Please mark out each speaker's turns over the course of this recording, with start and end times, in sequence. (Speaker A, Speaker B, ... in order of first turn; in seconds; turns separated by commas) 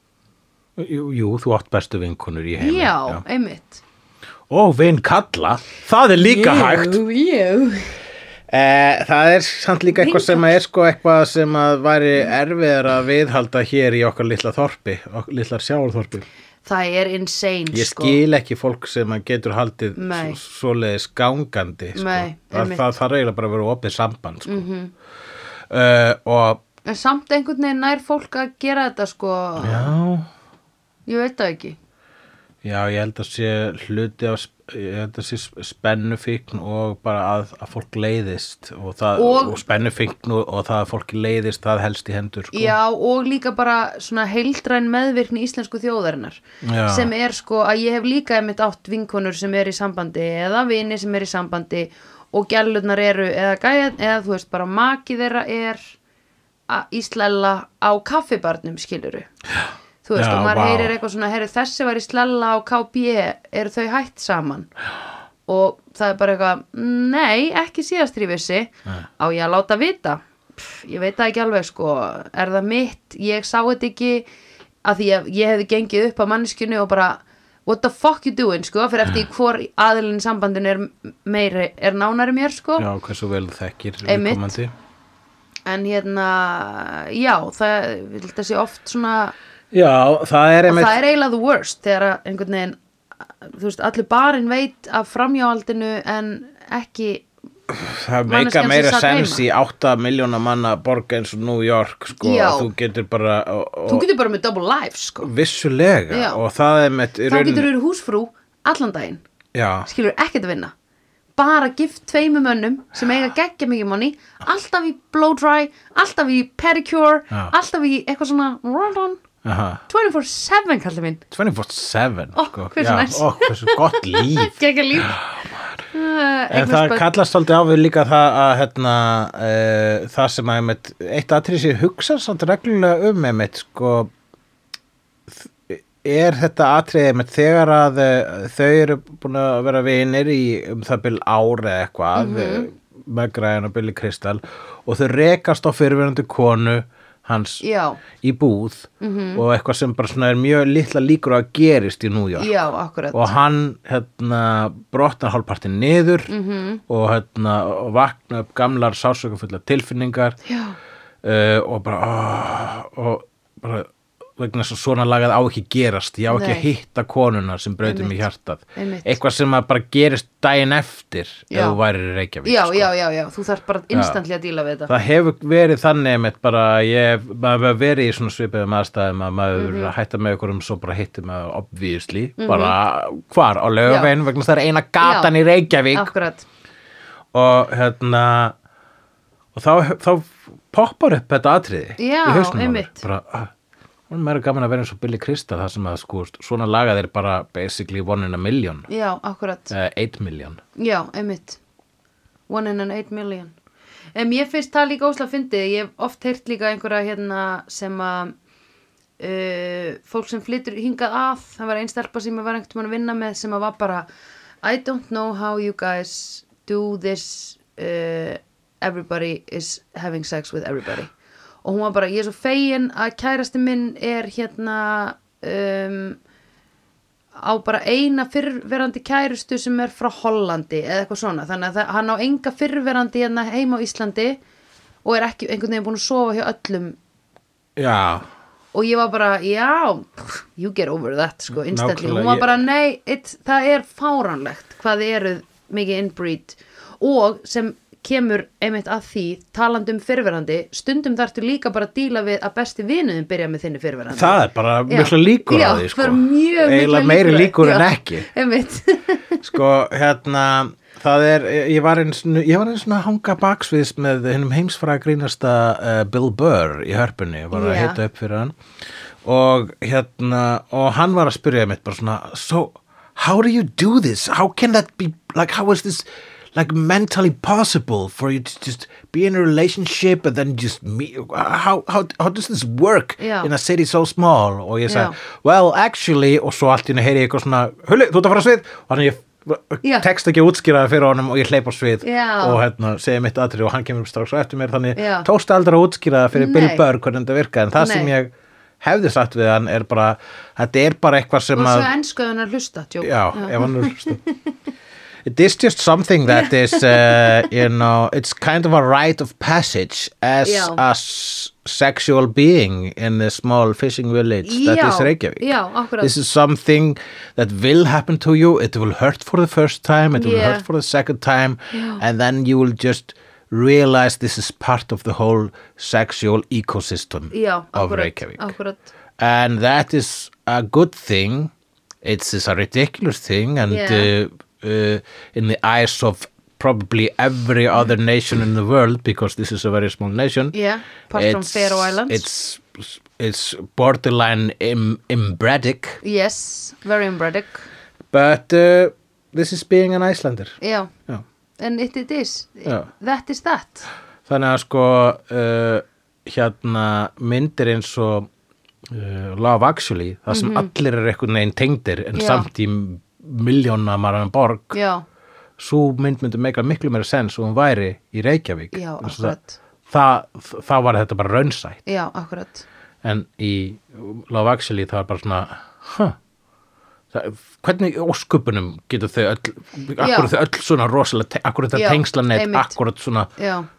Speaker A: 0.8-3.2, Speaker B: 2.6-3.8, Speaker A: 4.5-7.0, Speaker B: 6.2-7.9, Speaker A: 8.5-16.2, Speaker B: 10.0-10.5, Speaker B: 16.6-18.2, Speaker A: 17.7-24.6, Speaker B: 19.9-20.4, Speaker B: 21.9-22.8, Speaker B: 24.4-24.9, Speaker A: 25.7-26.6, Speaker B: 26.9-29.9, Speaker A: 29.6-30.3, Speaker B: 31.1-31.8, Speaker A: 32.6-42.8, Speaker B: 39.1-39.6, Speaker B: 42.5-55.9, Speaker A: 46.6-47.1, Speaker B: 56.7-59.3, Speaker B: 60.0-64.7, Speaker A: 60.1-60.9, Speaker B: 65.5-74.3, Speaker B: 74.8-82.9, Speaker A: 82.8-84.7, Speaker B: 84.0-84.5, Speaker B: 85.7-89.3, Speaker A: 89.7-91.0, Speaker B: 90.7-92.8, Speaker B: 93.3-97.3, Speaker A: 97.7-104.0, Speaker B: 98.2-99.4, Speaker B: 102.2-102.7, Speaker B: 103.9-105.3, Speaker A: 105.2-107.7, Speaker B: 106.1-106.4, Speaker B: 107.3-109.2, Speaker A: 109.5-109.9, Speaker B: 109.8-110.7, Speaker B: 111.3-119.2, Speaker A: 119.4-119.8, Speaker B: 119.9-121.2, Speaker A: 121.3-125.8, Speaker B: 122.3-125.2, Speaker B: 125.9-127.0, Speaker A: 126.5-134.1, Speaker A: 135.3-147.6, Speaker B: 142.1-142.7, Speaker B: 147.6-148.0, Speaker A: 148.2-152.5, Speaker B: 149.0-149.4, Speaker B: 152.4-153.3, Speaker A: 153.1-156.3, Speaker B: 156.3-156.8, Speaker A: 156.9-160.4, Speaker B: 160.4-160.8, Speaker A: 161.2-172.9, Speaker B: 166.3-166.7, Speaker B: 167.8-169.2, Speaker B: 171.5-171.8, Speaker B: 172.4-174.9, Speaker A: 173.9-174.2, Speaker A: 174.9-186.1, Speaker B: 179.5-179.9, Speaker B: 182.4-182.8, Speaker B: 183.8-184.1, Speaker B: 185.0-185.3, Speaker B: 185.9-186.4, Speaker A: 187.3-188.5, Speaker A: 189.5-193.5, Speaker B: 192.0-193.0, Speaker A: 194.1-198.9, Speaker B: 198.9-199.7, Speaker A: 199.7-200.6, Speaker B: 200.8-201.6, Speaker B: 202.5-203.5, Speaker B: 204.1-208.3, Speaker B: 209.2-214.1, Speaker B: 214.6-221.1, Speaker B: 221.6-226.2, Speaker B: 227.4-234.4, Speaker B: 235.0-237.0, Speaker A: 237.8-238.3, Speaker B: 238.7-259.4, Speaker A: 241.6-242.6, Speaker A: 254.1-258.3, Speaker A: 259.4-268.6, Speaker B: 267.5-268.0, Speaker A: 269.2-301.9, Speaker B: 283.2-283.5, Speaker B: 284.9-285.1, Speaker B: 292.0-292.6, Speaker B: 294.9-295.3, Speaker B: 296.3-296.8, Speaker B: 297.8-298.1, Speaker B: 301.5-304.4, Speaker A: 303.0-304.2, Speaker A: 305.2-328.6, Speaker B: 306.3-307.6, Speaker B: 310.4-310.8, Speaker B: 314.4-316.1, Speaker B: 320.1-320.7, Speaker B: 321.7-322.0, Speaker B: 327.3-328.9, Speaker A: 329.2-331.5, Speaker A: 332.0-340.6, Speaker B: 333.7-334.1, Speaker B: 340.5-342.3, Speaker A: 341.1-346.0, Speaker B: 346.0-347.7, Speaker A: 348.1-350.6, Speaker B: 350.6-350.9, Speaker B: 351.6-353.9, Speaker A: 354.2-358.3, Speaker A: 358.9-364.8, Speaker B: 360.3-360.7, Speaker B: 362.1-362.5, Speaker B: 364.7-365.0, Speaker A: 365.6-369.4, Speaker B: 368.7-369.6, Speaker A: 369.9-371.8, Speaker B: 371.9-372.6, Speaker A: 373.0-376.1, Speaker A: 377.1-383.3, Speaker B: 380.0-380.3, Speaker B: 381.7-382.7, Speaker B: 383.4-383.7